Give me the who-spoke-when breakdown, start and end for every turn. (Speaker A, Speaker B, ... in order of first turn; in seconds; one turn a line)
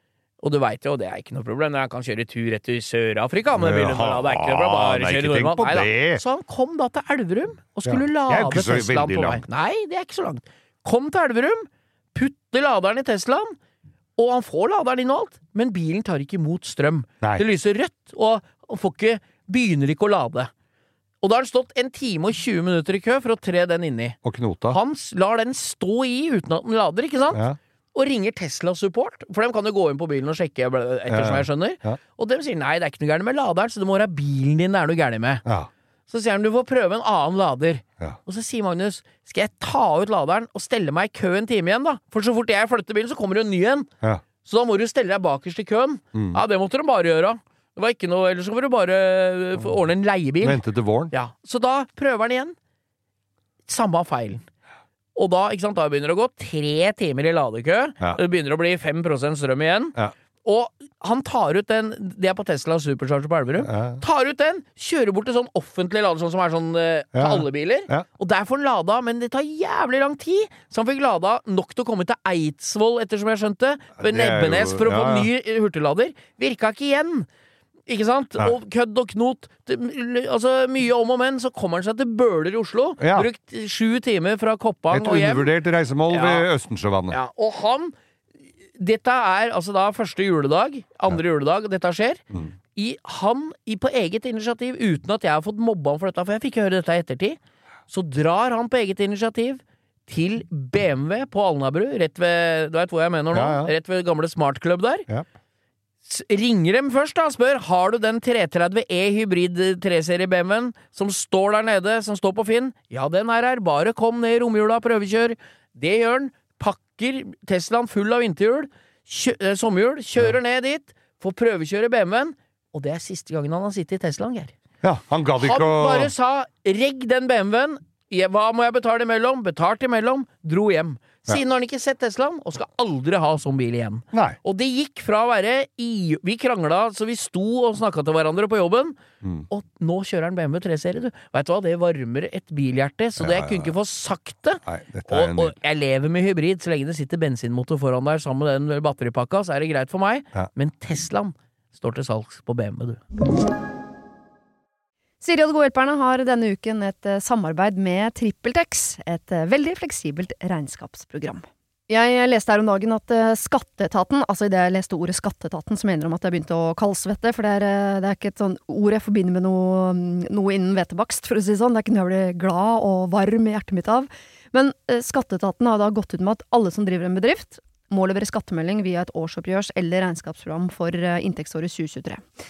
Speaker A: 0.4-13.6
Speaker B: 3.5-6.2
Speaker B: 7.8-9.4
Speaker A: 14.2-20.5
Speaker A: 21.2-24.2
Speaker B: 24.2-24.8
Speaker A: 24.7-27.4
Speaker B: 27.3-27.6
Speaker A: 27.9-35.4
Speaker B: 31.1-32.0
Speaker B: 35.4-35.7
Speaker A: 36.1-43.9
Speaker A: 44.4-52.5
Speaker B: 46.1-46.4
Speaker B: 50.4-51.1
Speaker A: 53.7-54.4
Speaker A: 55.1-77.3
Speaker B: 63.6-64.0
Speaker B: 67.1-68.0
Speaker B: 74.0-75.3
Speaker A: 77.9-85.5
Speaker B: 83.0-83.3
Speaker B: 84.9-87.2
Speaker A: 86.1-86.5
Speaker A: 87.1-87.9
Speaker A: 88.8-92.2
Speaker A: 92.7-97.4
Speaker A: 97.9-105.1
Speaker B: 103.3-103.7
Speaker A: 106.0-124.5
Speaker B: 124.8-126.1
Speaker A: 125.4-139.0
Speaker B: 134.1-134.4
Speaker B: 139.2-139.5
Speaker A: 139.5-153.0
Speaker B: 143.2-143.7
Speaker B: 144.6-145.5
Speaker C: 155.2-182.2